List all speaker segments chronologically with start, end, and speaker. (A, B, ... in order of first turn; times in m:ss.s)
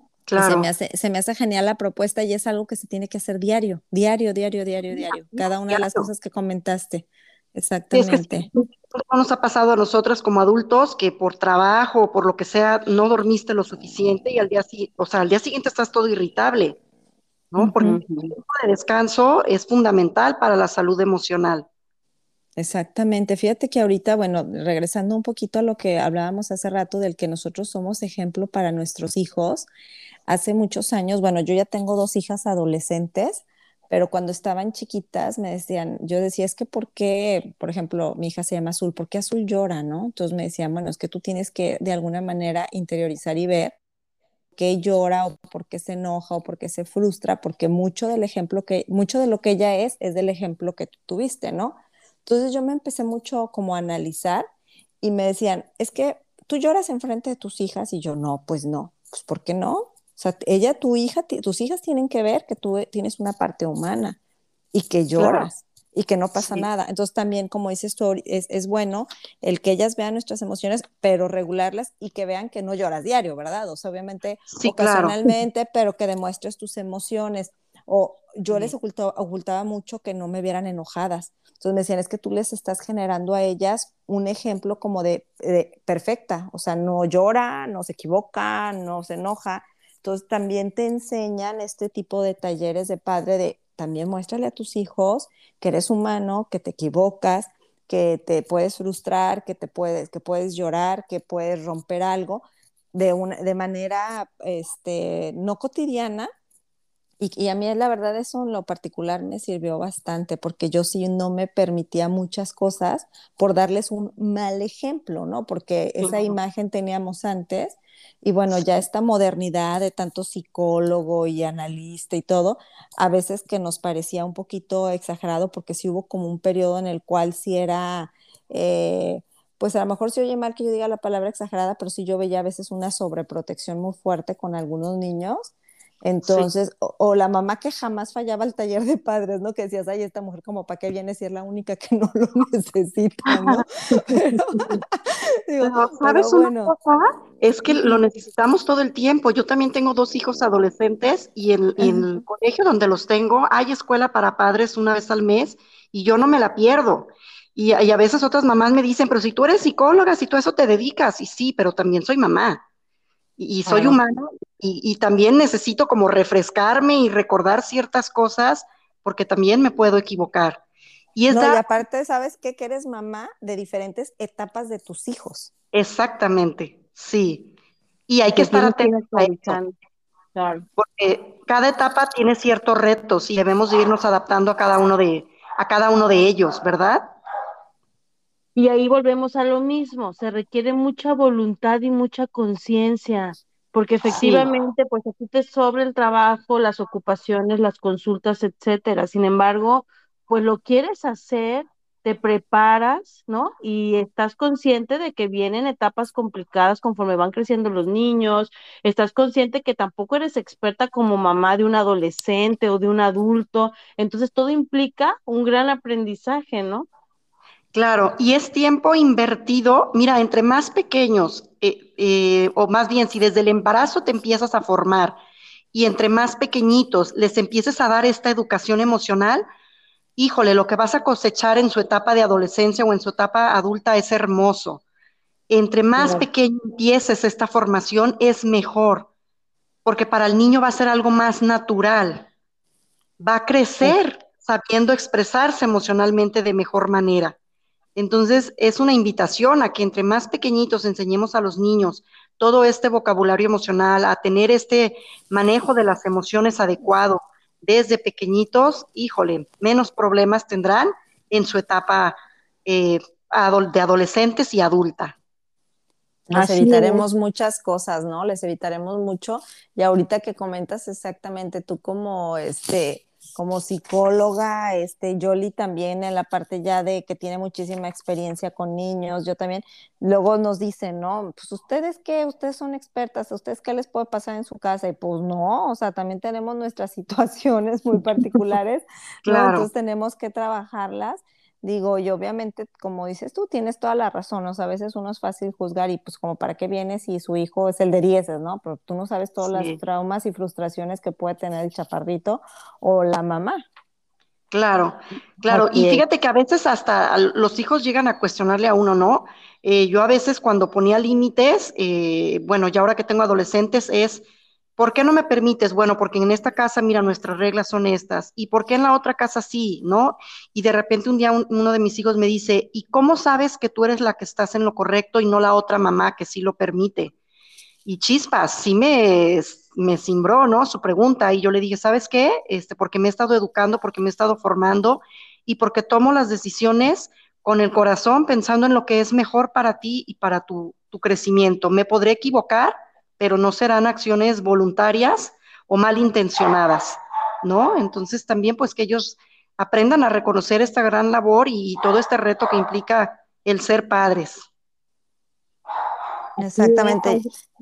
0:00.3-0:00.7 A
0:00.4-0:08.5 B
0:05.0-0:06.1 A
0:07.9-0:16.8 A
0:17.5-0:21.7 A
0:17.8-0:18.4 C
0:22.6-0:29.7 B
0:30.3-0:43.8 B
0:44.6-0:54.5 B
0:55.0-1:04.2 B
1:04.7-1:46.3 B
1:05.2-1:05.5 A
1:14.6-1:15.2 A
1:47.2-2:24.6 B
1:56.0-1:56.4 A
2:23.3-2:24.0 A
2:25.5-2:26.7 B
2:25.6-2:42.6 A
2:27.7-2:28.0 B
2:43.4-2:50.6 A
2:43.7-2:43.9 B
2:51.2-2:51.6 A
2:51.3-2:55.5 B
2:55.7-2:57.5 A
2:58.1-2:59.6 A
2:58.3-2:59.7 C
3:00.4-3:00.7 C
3:00.8-3:07.1 A
3:08.6-3:36.9 C
3:14.0-3:14.5 A
3:37.7-3:45.2 A
3:45.7-3:49.4 A
3:50.2-3:54.8 A
3:55.5-3:59.1 A
3:56.0-3:56.3 C
3:59.8-4:02.3 A
4:03.2-4:07.4 A
4:08.0-4:25.2 A
4:26.3-5:03.6 B
4:26.3-4:27.0 C
4:49.3-4:49.7 A
5:04.5-5:14.3 A
5:05.5-5:06.0 C
5:14.8-5:27.1 A
5:27.9-5:54.5 A
5:56.4-5:57.2 B
5:56.4-5:57.3 C